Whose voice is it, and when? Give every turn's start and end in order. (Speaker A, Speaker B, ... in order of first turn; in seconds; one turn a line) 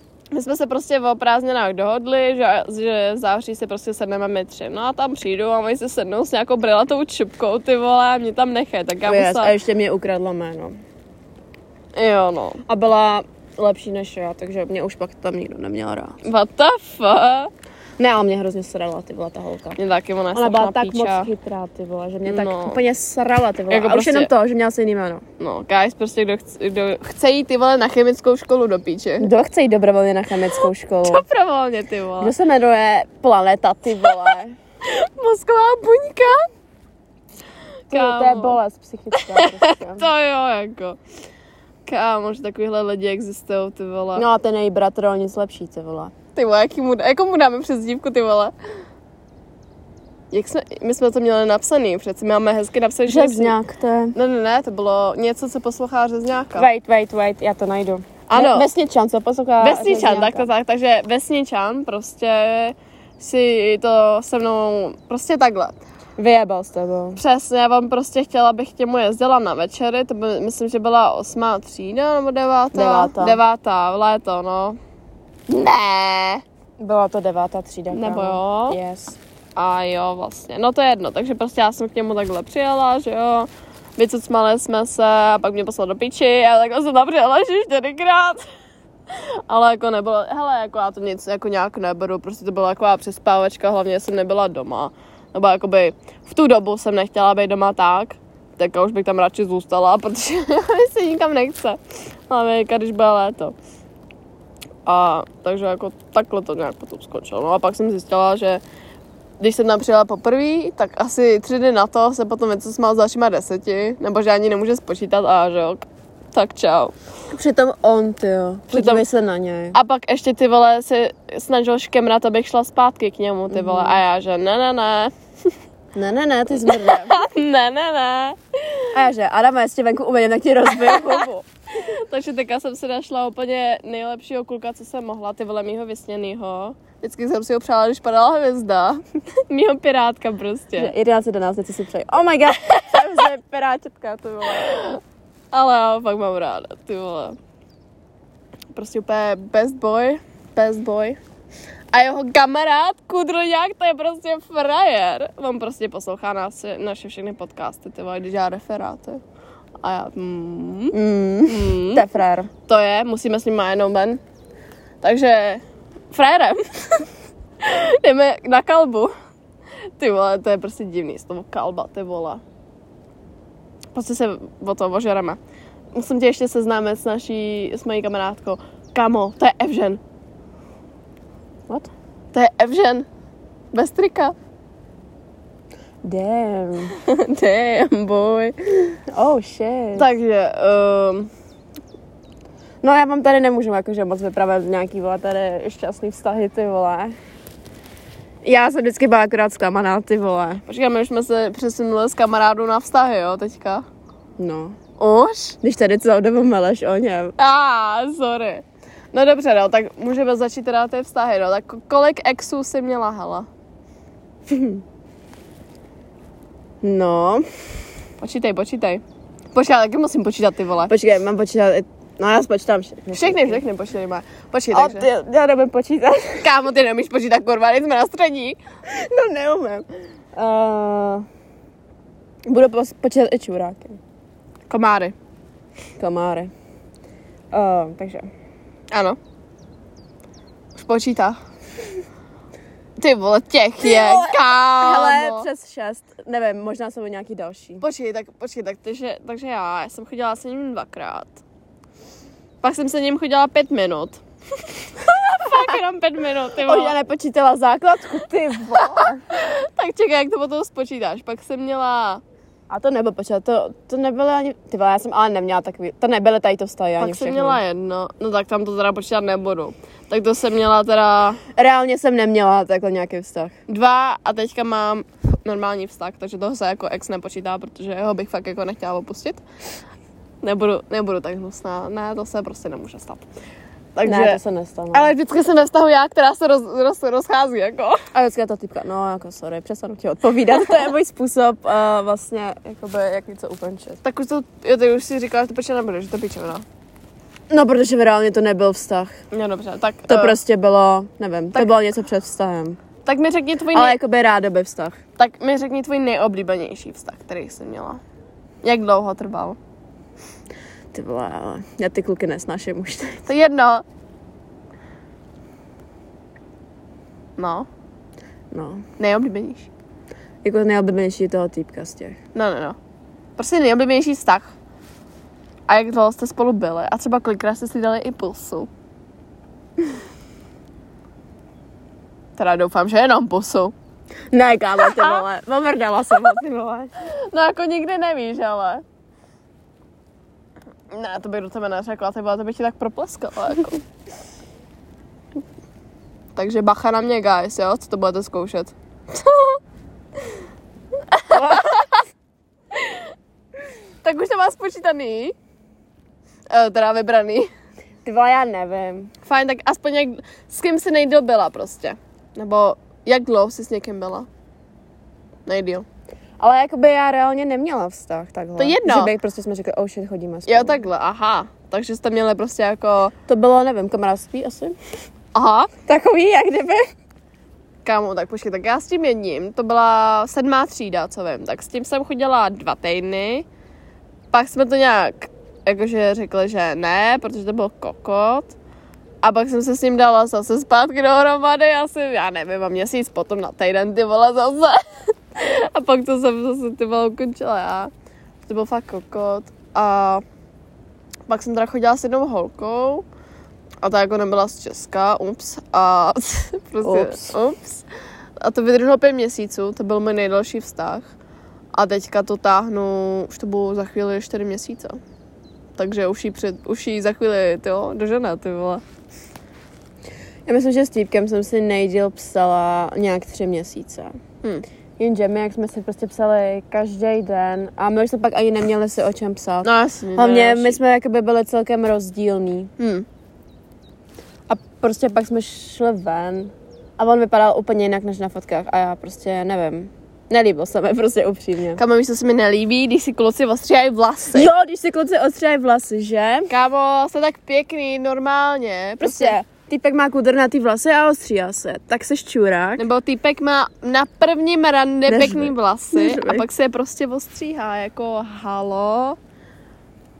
Speaker A: 0.3-9.5
Speaker B: 9.0-10.8
Speaker A: 11.9-12.6
Speaker B: 12.7-16.2
Speaker A: 16.2-17.5
Speaker B: 18.0-19.8
Speaker A: 19.8-21.3
Speaker B: 20.3-25.2
Speaker A: 22.2-22.8
Speaker A: 23.7-24.3
Speaker A: 25.4-29.3
Speaker B: 29.2-31.2
Speaker A: 31.0-32.3
Speaker B: 32.2-34.5
Speaker A: 34.0-34.3
Speaker A: 34.8-36.5
Speaker A: 37.9-38.6
Speaker B: 37.9-40.1
Speaker A: 39.1-41.0
Speaker A: 41.9-44.2
Speaker B: 44.1-46.1
Speaker A: 46.3-48.5
Speaker A: 50.3-53.5
Speaker B: 53.1-54.1
Speaker A: 54.1-56.7
Speaker B: 56.5-60.5
Speaker A: 58.3-58.7
Speaker A: 59.6-65.8
Speaker B: 66.2-67.2
Speaker A: 67.2-74.8
Speaker B: 72.7-73.4
Speaker A: 75.5-76.4
Speaker B: 76.8-79.2
Speaker A: 77.9-78.8
Speaker A: 79.5-88.4
Speaker A: 89.1-103.5
Speaker A: 104.8-108.6
Speaker A: 109.4-116.9
Speaker B: 117.3-119.8
Speaker A: 118.7-119.0
Speaker A: 119.7-125.5
Speaker B: 123.5-124.0
Speaker B: 125.9-127.2
Speaker A: 126.6-128.9
Speaker B: 128.9-131.4
Speaker A: 130.8-140.9
Speaker B: 140.8-144.9
Speaker A: 142.5-143.2
Speaker A: 144.4-145.0
Speaker A: 145.5-147.3
Speaker A: 148.7-151.2
Speaker A: 151.9-159.2
Speaker A: 159.8-162.0
Speaker B: 160.9-162.5
Speaker A: 162.7-164.2
Speaker A: 165.0-169.1
Speaker A: 170.0-172.4
Speaker A: 173.9-175.4
Speaker A: 175.9-180.0
Speaker A: 182.3-183.1
Speaker A: 183.7-184.3
Speaker B: 186.0-186.9
Speaker A: 186.9-189.0
Speaker B: 189.1-190.1
Speaker A: 189.9-191.3
Speaker B: 192.8-197.2
Speaker B: 198.4-200.6
Speaker A: 200.7-203.8
Speaker B: 204.4-204.8
Speaker A: 205.0-205.6
Speaker B: 205.6-207.3
Speaker A: 207.4-213.5
Speaker B: 214.5-214.8
Speaker B: 216.8-217.5
Speaker A: 218.2-220.9
Speaker B: 220.9-223.6
Speaker A: 223.1-225.1
Speaker B: 224.7-226.5
Speaker A: 226.4-228.6
Speaker B: 228.9-231.2
Speaker B: 232.5-234.0
Speaker A: 234.7-235.1
Speaker B: 236.0-236.5
Speaker B: 237.5-238.3
Speaker A: 238.9-239.2
Speaker A: 240.7-241.4
Speaker A: 243.0-245.5
Speaker B: 243.8-247.8
Speaker A: 247.8-251.4
Speaker A: 252.6-256.9
Speaker B: 256.6-259.2
Speaker A: 258.9-262.2
Speaker B: 262.7-267.6
Speaker A: 267.0-271.4
Speaker B: 271.5-273.5
Speaker A: 273.7-279.4
Speaker A: 280.4-283.3
Speaker A: 283.9-284.4
Speaker B: 284.0-285.1
Speaker A: 284.9-288.0
Speaker B: 288.1-294.0
Speaker A: 294.0-296.6
Speaker B: 297.5-299.2
Speaker A: 299.3-300.4
Speaker B: 300.1-302.8
Speaker A: 303.0-304.0
Speaker B: 303.7-305.0
Speaker A: 305.2-308.0
Speaker A: 308.6-309.6
Speaker B: 310.9-313.3
Speaker A: 313.3-313.8
Speaker A: 317.4-317.7
Speaker B: 318.5-318.9
Speaker A: 319.0-319.7
Speaker B: 320.4-322.2
Speaker A: 322.3-322.8
Speaker A: 323.4-324.5
Speaker A: 325.7-328.7
Speaker A: 332.4-333.7
Speaker B: 334.3-336.9
Speaker A: 334.8-335.2
Speaker A: 337.0-338.8
Speaker A: 340.9-343.8
Speaker A: 346.3-349.6
Speaker A: 351.1-351.9
Speaker B: 351.3-351.9
Speaker A: 352.7-353.1
Speaker A: 354.0-355.3
Speaker A: 356.5-357.5
Speaker B: 358.0-359.1
Speaker A: 359.2-364.3
Speaker A: 365.4-365.9
Speaker B: 366.4-370.8
Speaker A: 368.6-369.1
Speaker A: 370.5-373.1
Speaker B: 373.2-374.8
Speaker A: 375.3-375.7
Speaker B: 375.9-376.9
Speaker A: 377.8-383.4
Speaker A: 384.3-388.5
Speaker A: 389.2-394.8
Speaker A: 395.3-397.9
Speaker A: 398.4-400.2
Speaker A: 401.3-403.0
Speaker A: 403.8-407.9
Speaker B: 406.8-407.4
Speaker A: 408.4-411.1
Speaker A: 411.7-415.0
Speaker A: 415.8-418.8
Speaker B: 420.4-424.2
Speaker B: 425.0-432.7
Speaker A: 429.6-430.8
Speaker A: 432.8-433.1
Speaker B: 434.5-441.8
Speaker A: 441.8-444.5
Speaker B: 444.3-446.5
Speaker A: 446.5-449.4
Speaker B: 449.0-452.8
Speaker A: 452.8-459.2
Speaker B: 455.1-456.4